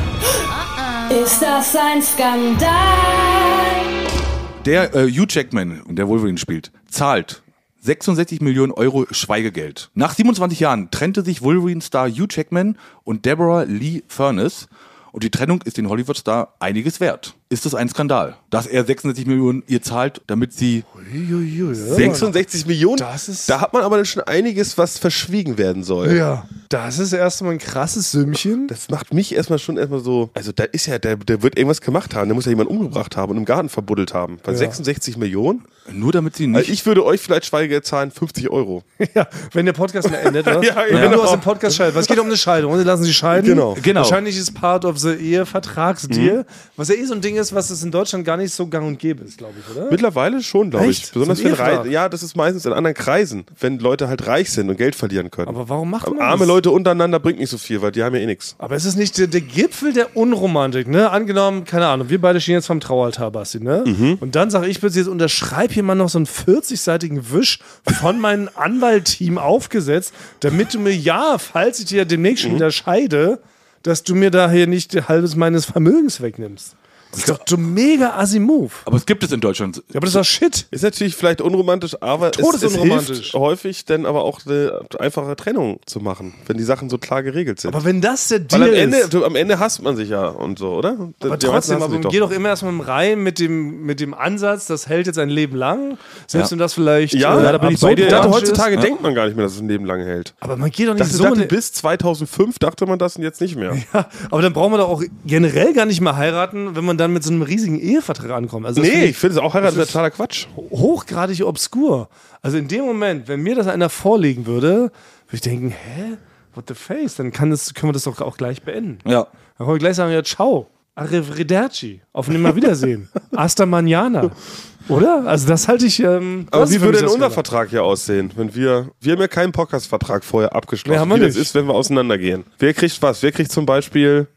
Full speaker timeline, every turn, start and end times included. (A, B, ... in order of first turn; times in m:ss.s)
0:01.1-0:03.8 A
0:04.6-0:20.8 B
0:20.9-0:22.3 C
0:21.8-0:26.2 D
0:21.9-0:22.3 B
0:23.0-0:23.6 C
0:26.0-0:28.7 C
0:28.7-0:35.7 D
0:34.5-0:34.8 C
0:35.9-0:36.7 B
0:36.5-0:38.8 D
0:39.0-0:50.0 C
0:40.2-0:42.2 D
0:40.9-0:41.2 B
0:43.3-0:43.8 D
0:43.7-0:44.2 B
0:46.1-0:46.4 D
0:49.9-0:58.6 D
0:50.7-0:51.9 C
0:55.4-0:56.6 C
0:58.6-1:18.8 C
1:03.8-1:04.2 D
1:12.4-1:12.6 D
1:18.8-1:20.2 B
1:19.9-1:20.7 C
1:20.7-1:27.8 D
1:22.3-1:23.4 C
1:27.6-1:29.1 C
1:28.5-1:32.2 D
1:31.2-1:38.7 C
1:37.1-1:40.3 D
1:37.3-1:38.9 B
1:40.4-1:41.5 C
1:41.0-1:43.8 D
1:43.7-1:49.9 C
1:48.7-1:50.5 D
1:50.6-1:59.0 C
1:59.6-2:07.4 C
2:06.5-2:14.3 D
2:10.8-2:11.5 C